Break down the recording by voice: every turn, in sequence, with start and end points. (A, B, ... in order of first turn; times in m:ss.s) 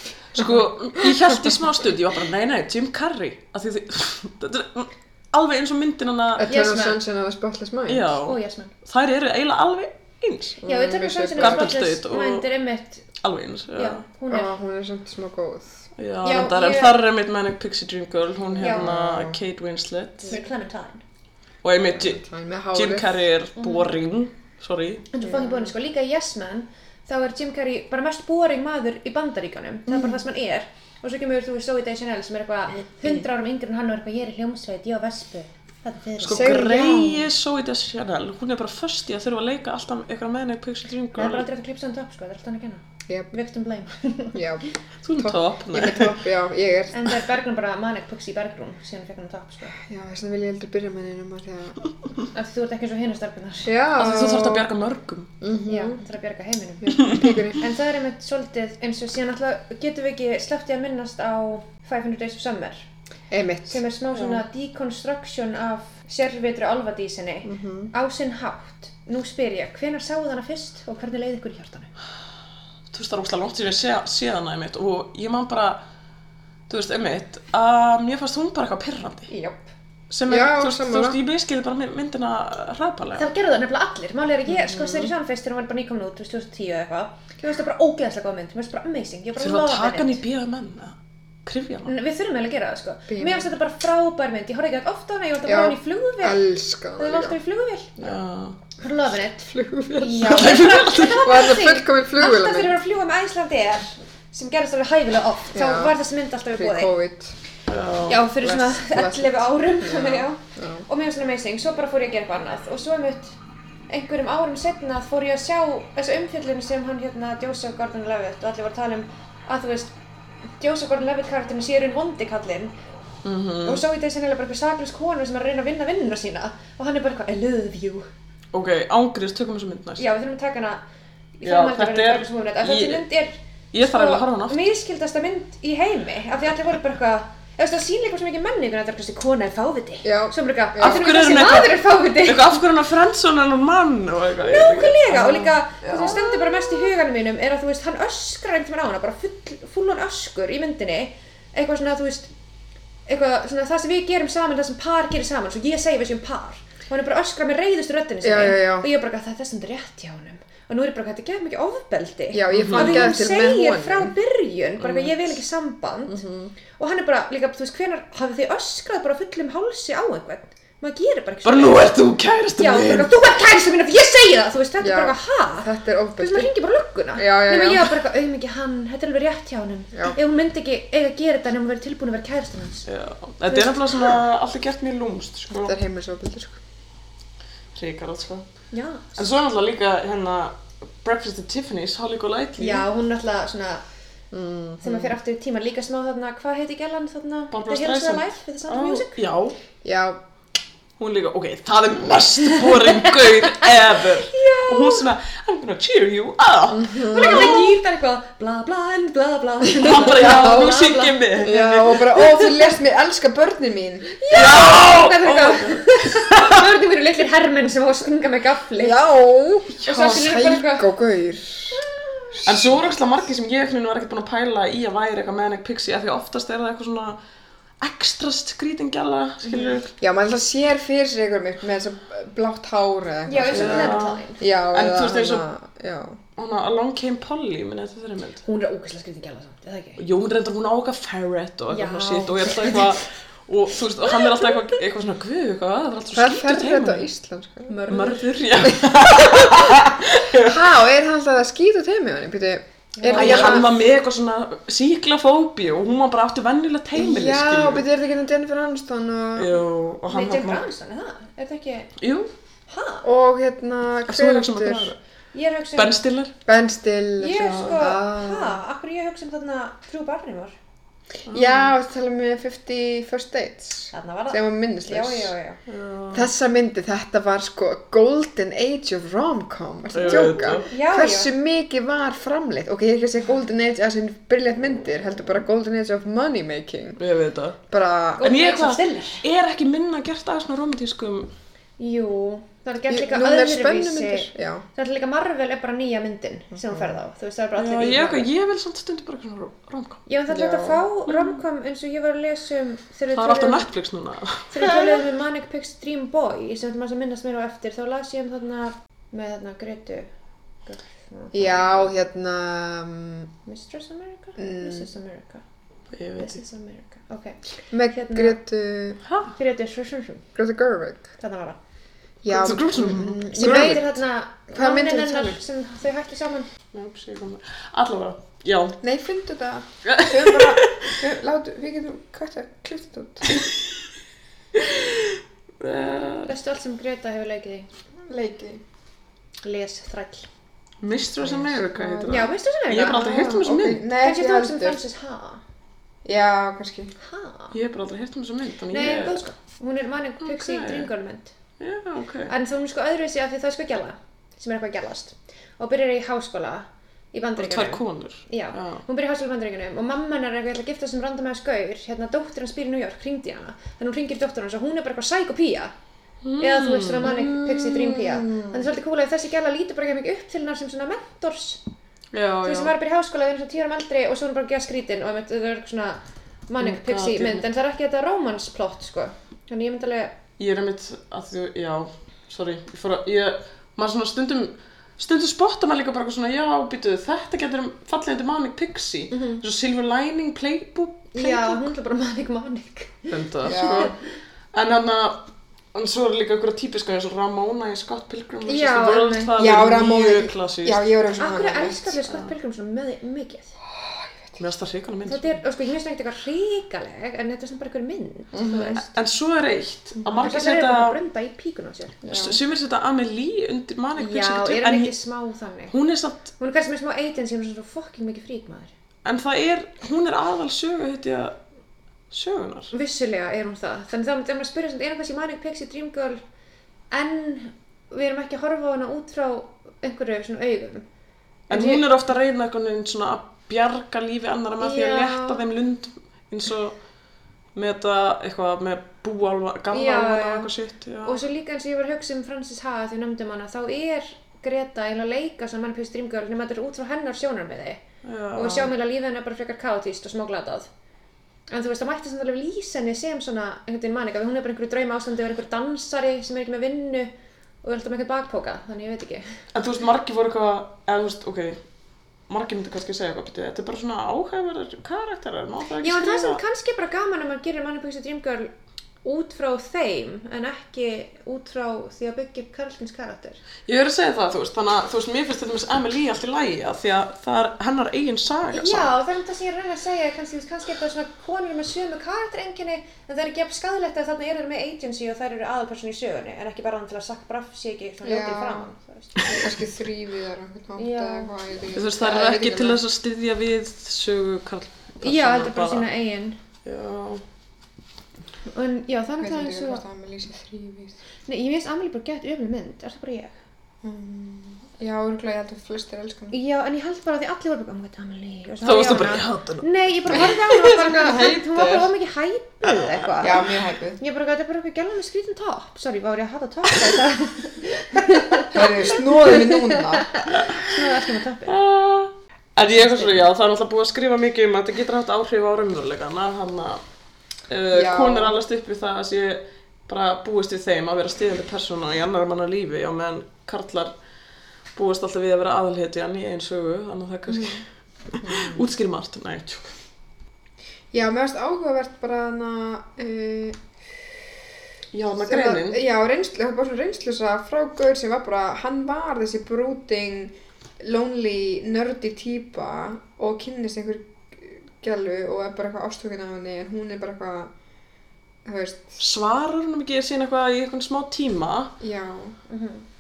0:00.3-0:06.5 A
0:00.4-0:01.4 B
0:06.4-0:08.2 B
0:06.5-0:07.0 C
0:07.9-0:10.6 A
0:08.2-0:08.7 C
0:10.6-0:11.8 B
0:10.6-0:13.0 C
0:11.4-0:12.4 A
0:13.2-0:14.0 A
0:13.8-0:14.5 C
0:14.3-0:15.9 B
0:16.0-0:20.4 A
0:16.2-0:17.0 C
0:18.5-0:19.4 B
0:18.6-0:18.9 C
0:20.3-0:21.0 C
0:21.6-0:22.2 A
0:21.9-0:23.2 B
0:22.7-0:25.1 A
0:23.6-0:23.9 C
0:25.1-0:36.6 C
0:25.2-0:25.7 B
0:29.9-0:30.2 B
0:36.2-0:41.5 A
0:36.3-0:37.3 B
0:41.2-0:44.4 C
0:44.3-0:47.1 B
0:45.0-0:46.2 A
0:46.9-0:49.8 C
0:49.8-0:51.8 B
0:52.3-0:53.8 C
0:53.6-0:54.7 B
0:54.0-0:55.3 A
0:55.4-0:56.0 B
0:55.7-1:02.8 C
0:56.8-0:57.7 B
0:57.0-0:57.3 A
1:03.3-1:03.8 B
1:03.7-1:11.9 C
1:04.1-1:04.4 A
1:07.4-1:07.9 B
1:12.9-1:15.8 A
1:16.7-1:19.3 A
1:19.3-1:19.7 C
1:20.1-1:23.3 A
1:20.3-1:21.2 B
1:23.2-1:30.2 C
1:24.5-1:25.1 B
1:29.4-1:31.0 A
1:31.5-1:31.9 A
1:31.9-1:36.4 C
1:33.1-1:33.5 B
1:35.5-1:37.4 B
1:37.0-1:37.9 C
1:38.0-1:38.6 A
1:38.8-1:46.9 C
1:39.5-1:40.1 B
1:39.9-1:41.3 A
1:41.1-1:42.8 B
1:45.5-1:46.0 B
1:46.5-1:47.4 B
1:47.7-1:48.2 A
1:48.1-1:53.4 C
1:48.4-1:50.8 B
1:53.9-2:00.0 C
2:00.6-2:02.7 C
2:03.2-2:03.8 A
2:03.6-2:08.1 C
2:08.5-2:10.1 A
2:10.0-2:10.8 C
2:11.4-2:22.6 C
2:11.4-2:13.1 A
2:13.7-2:14.7 A
2:20.0-2:21.2 B
2:20.8-2:26.2 A
2:24.4-2:32.3 C
2:33.1-2:51.9 C
2:38.2-2:38.9 B
2:42.3-2:44.1 B
2:42.5-2:43.0 A
2:44.8-2:45.2 A
2:46.1-2:46.6 B
2:51.4-2:53.1 A
2:52.6-3:02.9 C
2:54.8-2:56.5 B
2:57.2-2:58.0 B
3:02.9-3:05.8 A
3:03.5-3:04.2 C
3:05.5-3:06.6 B
3:07.8-3:08.4 A
3:08.7-3:09.2 C
3:09.2-3:12.8 A
3:12.6-3:13.8 C
3:14.3-3:15.2 B
3:14.8-3:19.2 C
3:17.5-3:19.6 A
3:19.8-3:20.2 B
3:21.0-3:27.6 A
3:23.5-3:25.1 C
3:26.7-3:27.7 B
3:27.0-3:31.2 C
3:29.8-3:32.1 A
3:29.9-3:30.7 B
3:31.4-3:34.1 B
3:32.1-3:32.4 C
3:34.1-3:39.0 C
3:34.3-3:36.6 A
3:38.8-3:41.8 B
3:39.8-3:40.3 A
3:39.8-3:40.9 C
3:41.7-3:42.4 C
3:42.4-3:42.8 B
3:42.4-3:47.2 A
3:47.8-3:49.9 A
3:49.5-3:49.8 C
3:50.0-3:56.2 B
3:53.3-3:54.4 C
3:53.5-3:55.4 A
3:56.4-3:58.4 A
3:58.4-4:00.0 C
4:00.0-4:07.1 A
4:01.7-4:03.0 C
4:04.0-4:04.8 C
4:06.2-4:07.8 B
4:07.7-4:08.3 C
4:07.9-4:10.7 A
4:10.3-4:13.7 B
4:13.0-4:13.7 C
4:13.1-4:17.8 A
4:17.0-4:19.6 B
4:19.4-4:20.7 A
4:20.1-4:21.9 C
4:22.0-4:22.3 A
4:22.7-4:23.1 C
4:23.0-4:24.9 B
4:24.1-4:25.0 A
4:25.3-4:26.0 C
4:25.8-4:26.3 A
4:26.5-4:28.6 B
4:27.2-4:30.6 C
4:27.4-4:27.7 A
4:31.3-4:35.3 B
4:31.3-4:31.7 A
4:33.9-4:35.6 C
4:35.7-4:36.3 A
4:36.1-4:47.0 B
4:39.9-4:40.6 A
4:40.1-4:41.3 C
4:47.0-4:47.6 A
4:47.7-4:48.3 B
4:48.2-4:49.2 C
4:48.2-4:51.3 A
4:51.8-4:58.3 C
4:52.9-4:54.6 B
4:56.5-4:57.0 B
4:57.6-5:00.0 A
5:00.1-5:03.7 C
5:00.3-5:00.8 B
5:01.1-5:01.4 A
5:03.1-5:05.0 A
5:04.5-5:10.1 C
5:10.7-5:11.9 C
5:11.3-5:13.3 B
5:13.5-5:15.4 C
5:14.4-5:14.9 B
5:15.9-5:16.4 A
5:16.2-5:18.4 C
5:17.7-5:19.0 B
5:19.1-5:19.3 A
5:19.4-5:20.3 C
5:20.4-5:21.0 B
5:21.2-5:21.6 C
5:22.2-5:25.4 B
5:22.3-5:23.8 A
5:23.3-5:26.5 C
5:26.7-5:28.8 A
5:28.8-5:33.5 B
5:29.8-5:30.9 A
5:34.5-5:36.4 A
5:36.2-5:37.7 C
5:38.1-5:38.6 B
5:39.4-5:40.3 C
5:40.8-5:43.8 A
5:41.2-5:44.8 B
5:42.1-5:43.2 C
5:44.0-5:45.4 C
5:46.0-5:46.9 B
5:47.0-5:47.6 C
5:47.5-5:49.2 A
5:48.7-5:51.3 C
5:50.2-5:50.9 A
5:51.6-5:52.3 A
5:52.3-6:05.7 C
5:57.4-5:58.8 A
6:06.2-6:08.4 A
6:06.4-6:11.6 C
6:12.1-6:12.7 A
6:12.4-6:20.2 C
6:16.6-6:17.5 A
6:20.4-6:31.7 A
6:29.1-6:29.4 C
6:31.1-6:34.0 C
6:33.1-6:34.0 A
6:33.4-6:33.9 B
6:34.5-6:41.0 A
6:38.5-6:39.6 C
6:39.4-6:42.0 B
6:41.2-6:43.6 C
6:43.7-6:44.4 B
6:44.4-6:45.4 A
6:45.1-6:48.9 C
6:48.3-6:48.8 B
6:48.8-6:51.0 A
6:50.1-6:52.1 C
6:52.1-6:52.4 B
6:52.1-6:54.9 A
6:54.0-6:55.8 C
6:55.7-6:56.3 A
6:56.4-6:58.7 C
6:59.0-7:01.4 A
7:02.1-7:02.7 A
7:02.7-7:06.2 C
7:06.9-7:10.8 C
7:11.5-7:11.8 C
7:11.5-7:16.8 A
7:14.6-7:15.4 C
7:17.6-7:21.2 A
7:19.7-7:20.5 C
7:21.0-7:27.8 C
7:28.0-7:28.7 A
7:28.4-7:30.7 C
7:31.5-7:37.1 C
7:37.6-7:39.4 C
7:39.5-7:41.6 A
7:42.3-7:46.4 A
7:45.8-7:48.5 C
7:49.0-7:53.4 C
7:53.7-7:58.9 A
7:58.5-8:09.4 C
8:08.0-8:08.7 B
8:09.3-8:12.8 B
8:10.8-8:11.4 C
8:11.7-8:15.9 A
8:15.0-8:16.4 C
8:16.6-8:17.2 A
8:18.5-8:19.8 C
8:19.2-8:21.0 B
8:21.3-8:23.4 C
8:23.8-8:26.4 B
8:26.3-8:33.4 C
8:28.6-8:31.6 A
8:33.2-8:34.0 B
8:34.0-8:41.6 C
8:38.5-8:40.1 B
8:40.3-8:46.8 A
8:42.7-8:43.3 C
8:47.5-8:53.9 A
8:47.7-8:48.4 B
8:54.8-8:59.7 A
8:58.2-8:58.6 B
9:00.9-9:03.7 B
9:04.9-9:05.8 A
9:05.2-9:17.5 B
9:18.4-9:19.0 B
9:19.0-9:21.7 A
9:21.8-9:22.4 B
9:22.5-9:22.8 C